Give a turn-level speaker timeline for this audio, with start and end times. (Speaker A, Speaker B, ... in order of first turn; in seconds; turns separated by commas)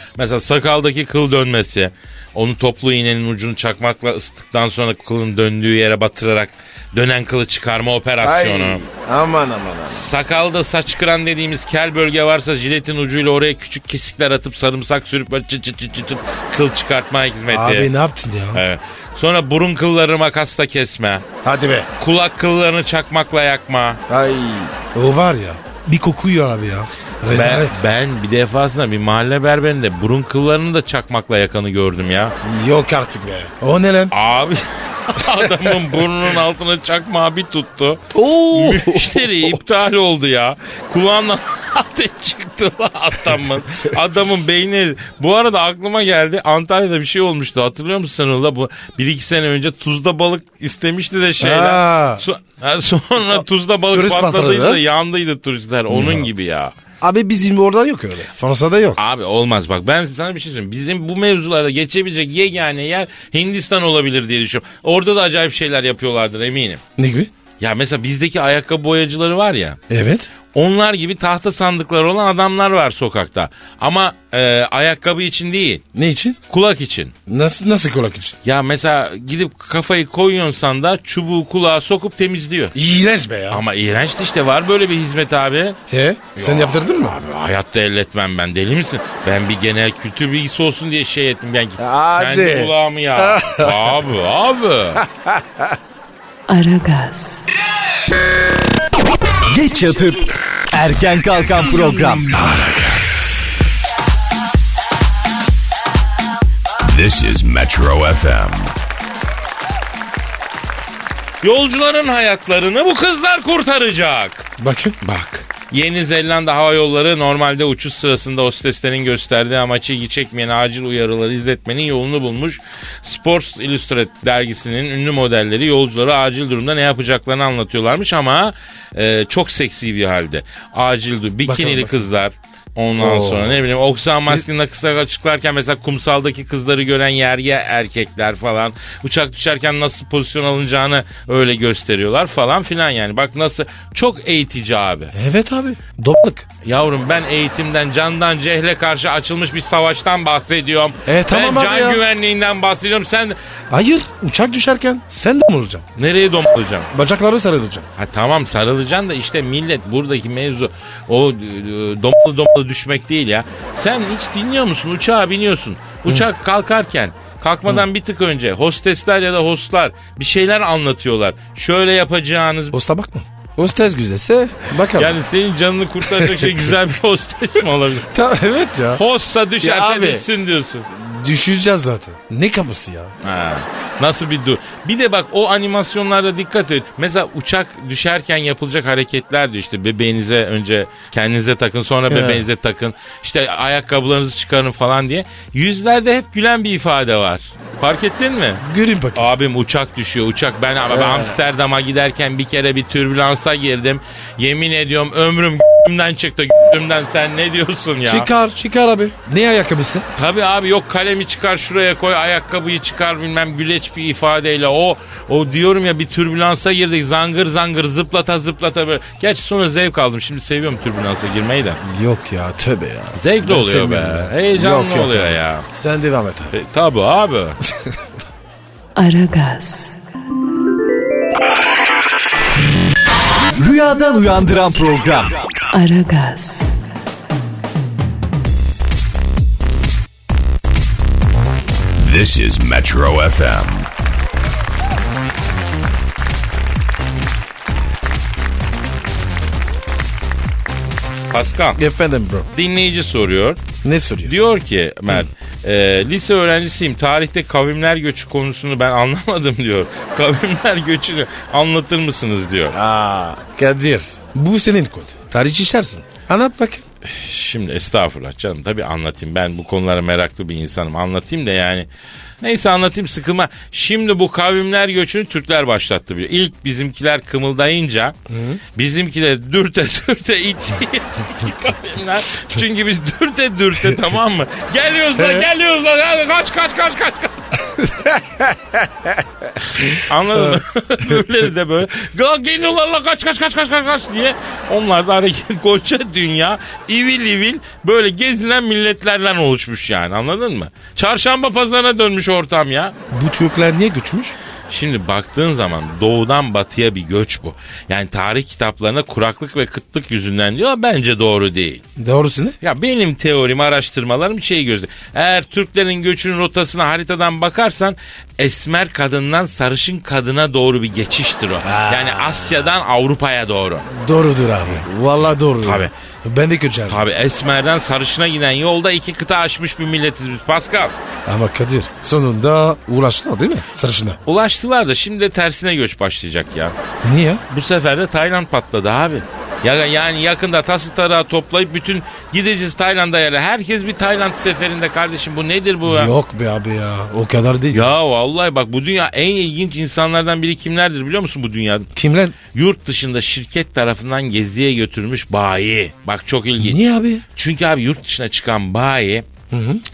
Speaker A: 0.2-8.8, Speaker B: 8.2-10.1, Speaker A: 9.9-17.9, Speaker B: 17.5-18.6, Speaker A: 18.5-21.2, Speaker B: 21.4-21.9, Speaker A: 22.0-24.0, Speaker B: 24.1-27.8, Speaker A: 27.3-32.4, Speaker B: 32.4-34.1, Speaker A: 34.1-56.8, Speaker B: 35.4-35.8, Speaker B: 38.1-39.6, Speaker B: 51.4-52.2, Speaker B: 53.3-54.8, Speaker B: 55.9-56.3, Speaker B: 57.0-59.0, Speaker A: 59.0-66.8, Speaker B: 67.0-67.3, Speaker A: 67.6-69.8, Speaker B: 69.9-70.3, Speaker A: 70.5-75.8, Speaker B: 75.9-76.4, Speaker A: 76.5-77.1, Speaker B: 77.3-78.4, Speaker A: 78.4-82.7, Speaker B: 82.8-83.6, Speaker A: 83.5-85.8, Speaker B: 85.9-87.2, Speaker A: 86.4-95.0, Speaker B: 91.8-93.9, Speaker B: 95.0-95.7, Speaker C: 96.5-97.4, Speaker D: 99.5-102.3, Speaker B: 102.3-103.5, Speaker E: 106.8-108.8, Speaker A: 111.4-114.5, Speaker B: 114.6-115.0, Speaker A: 115.0-145.1, Speaker B: 131.4-132.0, Speaker B: 133.0-133.6, Speaker B: 145.1-146.5, Speaker A: 146.6-153.4, Speaker B: 151.1-152.0, Speaker B: 153.7-155.9, Speaker A: 156.0-156.9, Speaker B: 156.9-157.9, Speaker A: 158.0-172.8, Speaker B: 172.7-175.2, Speaker A: 174.9-178.1, Speaker B: 176.0-176.7, Speaker B: 178.1-179.0, Speaker A: 178.9-180.9, Speaker B: 179.6-180.3, Speaker B: 180.9-183.1, Speaker A: 183.2-198.6, Speaker B: 192.1-192.5, Speaker B: 198.6-199.3, Speaker A: 199.2-208.3, Speaker B: 200.9-201.4, Speaker B: 208.1-210.1, Speaker A: 210.2-221.8, Speaker B: 221.8-226.6, Speaker A: 223.2-225.7, Speaker A: 226.5-227.6, Speaker C: 229.0-230.0, Speaker D: 233.6-235.4, Speaker C: 235.7-236.7, Speaker E: 242.0-243.9, Speaker A: 251.3-251.8, Speaker B: 251.8-252.5, Speaker A: 252.5-253.6, Speaker B: 253.8-254.3, Speaker A: 254.2-262.8, Speaker B: 262.7-266.8, Speaker A: 267.0-271.9, Speaker A: 272.4-278.2, Speaker B: 278.3-278.6, Speaker A: 278.8-287.6, Speaker B: 285.2-285.5, Speaker B: 287.8-288.6, Speaker A: 289.8-302.9, Speaker B: 289.8-290.6, Speaker B: 303.1-304.4, Speaker A: 304.7-311.8, Speaker B: 312.0-312.6, Speaker A: 312.6-323.9, Speaker B: 321.6-322.7, Speaker B: 323.9-327.1, Speaker A: 325.6-325.9, Speaker A: 326.9-330.9, Speaker B: 331.3-334.2, Speaker A: 334.3-336.8, Speaker B: 337.0-337.4, Speaker A: 337.5-346.1, Speaker B: 345.9-347.9, Speaker A: 347.7-351.9, Speaker B: 352.0-352.4, Speaker A: 352.5-359.3, Speaker B: 356.6-357.2, Speaker B: 359.5-359.8